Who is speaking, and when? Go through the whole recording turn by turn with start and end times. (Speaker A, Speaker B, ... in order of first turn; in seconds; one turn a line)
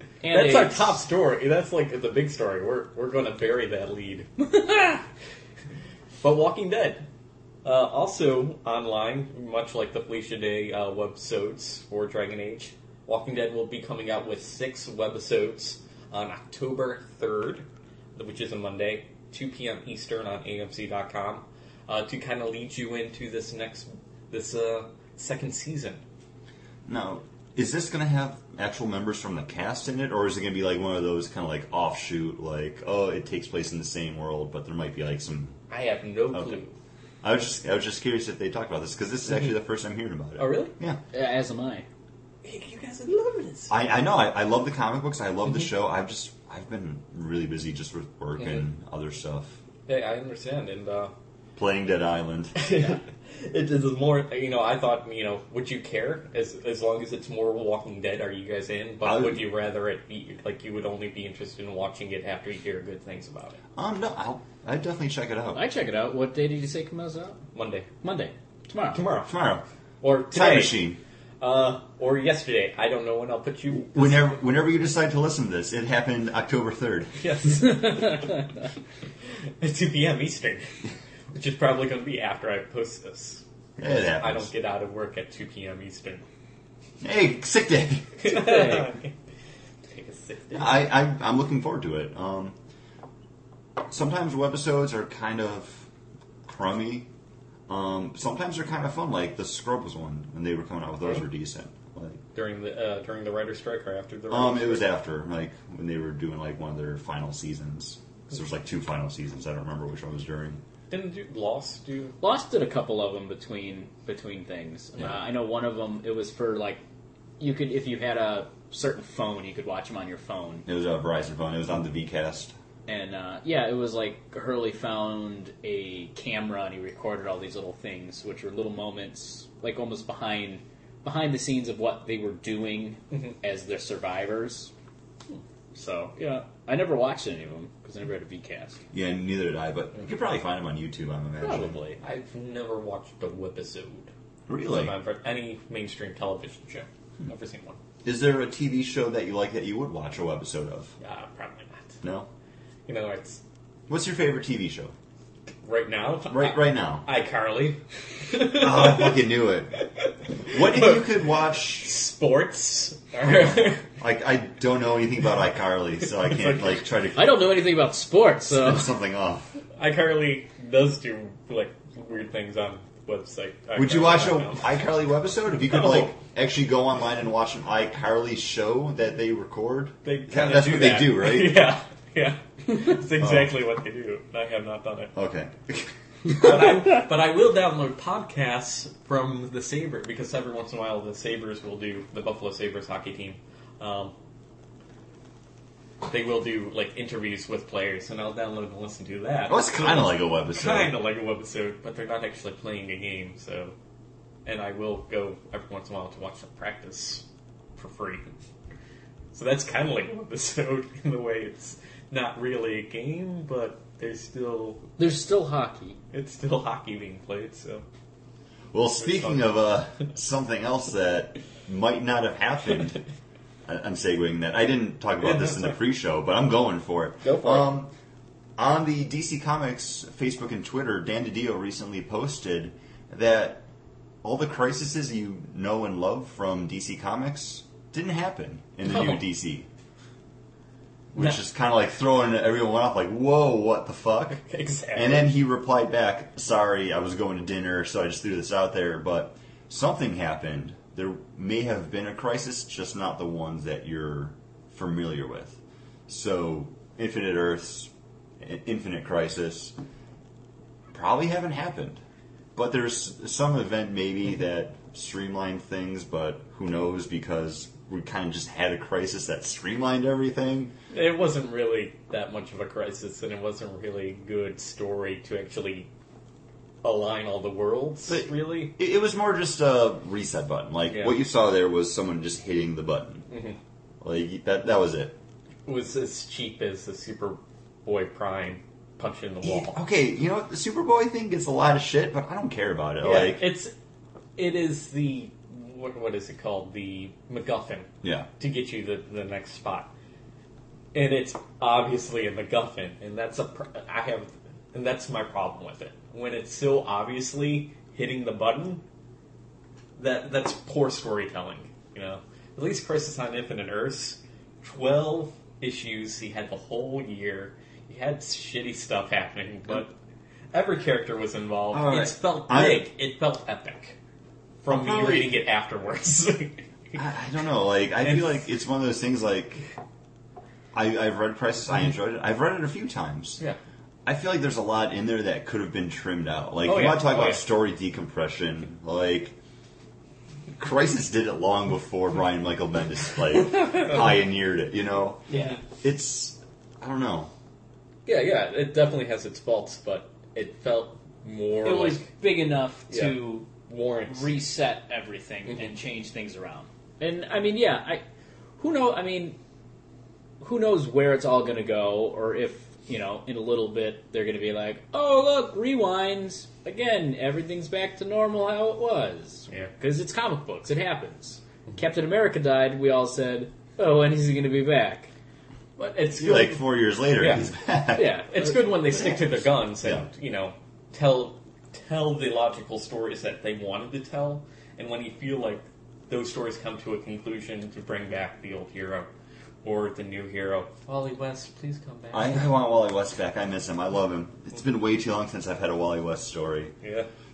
Speaker A: 0.2-0.9
Speaker B: 0.3-4.3
Speaker A: 4.4-5.0
Speaker B: 6.2-7.1
Speaker B: 7.6-17.6
Speaker B: 18.2-26.0
Speaker C: 26.9-35.6
Speaker B: 35.7-36.7
Speaker C: 36.3-36.6
Speaker C: 37.2-41.0
Speaker B: 40.4-40.7
Speaker A: 41.1-41.9
Speaker B: 42.4-43.7
Speaker C: 43.7-49.6
Speaker B: 48.4-48.7
Speaker B: 49.9-51.1
Speaker C: 51.6-52.6
Speaker B: 52.6-63.6
Speaker C: 59.0-59.5
Speaker C: 63.8-65.6
Speaker A: 65.5-67.4
Speaker B: 67.5-67.9
Speaker A: 68.0-69.0
Speaker B: 68.9-69.3
Speaker C: 69.2-69.6
Speaker B: 70.0-70.9
Speaker C: 70.3-71.0
Speaker B: 71.4-74.3
Speaker C: 73.7-77.2
Speaker B: 77.2-78.4
Speaker A: 77.6-78.4
Speaker B: 79.6-80.8
Speaker B: 81.3-86.2
Speaker C: 83.8-84.5
Speaker C: 87.0-88.2
Speaker B: 88.2-89.2
Speaker A: 88.2-89.0
Speaker B: 89.9-90.8
Speaker C: 90.5-92.6
Speaker C: 93.8-95.9
Speaker C: 96.5-97.1
Speaker C: 97.7-102.2
Speaker B: 102.3-104.9
Speaker C: 104.3-110.6
Speaker B: 110.9-112.2
Speaker A: 112.2-116.8
Speaker A: 117.4-120.7
Speaker C: 120.7-122.6
Speaker A: 122.9-134.7
Speaker A: 135.7-138.8
Speaker C: 138.9-141.8
Speaker A: 141.4-142.0
Speaker B: 142.0-144.1
Speaker C: 144.5-144.9
Speaker B: 144.7-147.8
Speaker C: 148.0-150.9
Speaker B: 151.0-152.0
Speaker C: 152.0-152.3
Speaker B: 152.9-153.4
Speaker C: 153.9-154.9
Speaker B: 155.6-159.2
Speaker C: 156.3-157.1
Speaker C: 158.4-159.8
Speaker B: 160.0-163.9
Speaker C: 160.5-161.9
Speaker C: 163.5-167.5
Speaker B: 166.2-166.9
Speaker A: 167.2-168.9
Speaker C: 168.5-169.5
Speaker B: 169.8-174.8
Speaker C: 173.8-181.6
Speaker B: 175.7-176.1
Speaker B: 180.0-185.1
Speaker C: 183.2-183.5
Speaker C: 185.1-185.9
Speaker B: 186.3-194.1
Speaker B: 196.1-203.8
Speaker C: 199.5-200.9
Speaker B: 204.4-207.3
Speaker B: 207.8-208.3
Speaker B: 209.3-214.9
Speaker A: 215.0-216.0
Speaker B: 216.1-217.8
Speaker C: 218.7-223.0
Speaker B: 219.0-219.5
Speaker C: 223.7-227.9
Speaker B: 225.2-225.8
Speaker B: 227.2-227.7
Speaker C: 228.6-233.7
Speaker C: 234.2-239.7
Speaker B: 238.8-239.2
Speaker C: 241.1-244.4
Speaker B: 244.4-245.3
Speaker C: 244.9-259.8
Speaker C: 260.9-262.0
Speaker C: 262.6-270.7
Speaker B: 270.9-275.9
Speaker B: 276.8-278.7
Speaker C: 278.1-283.3
Speaker B: 280.9-281.2
Speaker B: 283.3-283.6
Speaker C: 284.0-285.2
Speaker B: 285.7-289.8
Speaker C: 289.4-293.5
Speaker B: 293.0-293.7
Speaker B: 294.4-299.9
Speaker C: 298.0-298.3
Speaker B: 300.9-308.8
Speaker B: 310.0-319.9
Speaker B: 320.5-324.0
Speaker C: 321.7-322.9
Speaker B: 324.6-327.0
Speaker C: 324.7-325.4
Speaker C: 326.9-329.7
Speaker B: 328.0-328.4
Speaker C: 330.7-333.4
Speaker C: 334.1-339.4
Speaker B: 336.6-337.4
Speaker C: 340.6-347.3
Speaker B: 343.4-344.2
Speaker B: 345.3-345.6
Speaker A: 345.3-345.6
Speaker B: 348.1-352.1
Speaker A: 351.6-353.5
Speaker B: 352.9-354.4
Speaker A: 354.1-358.0
Speaker A: 358.6-359.4
Speaker A: 360.4-375.1
Speaker B: 375.8-376.6
Speaker C: 376.2-378.2
Speaker B: 377.2-377.5
Speaker A: 377.9-379.1
Speaker B: 378.0-389.1
Speaker C: 379.8-380.1
Speaker B: 389.6-392.5
Speaker C: 392.1-396.8
Speaker B: 396.8-397.1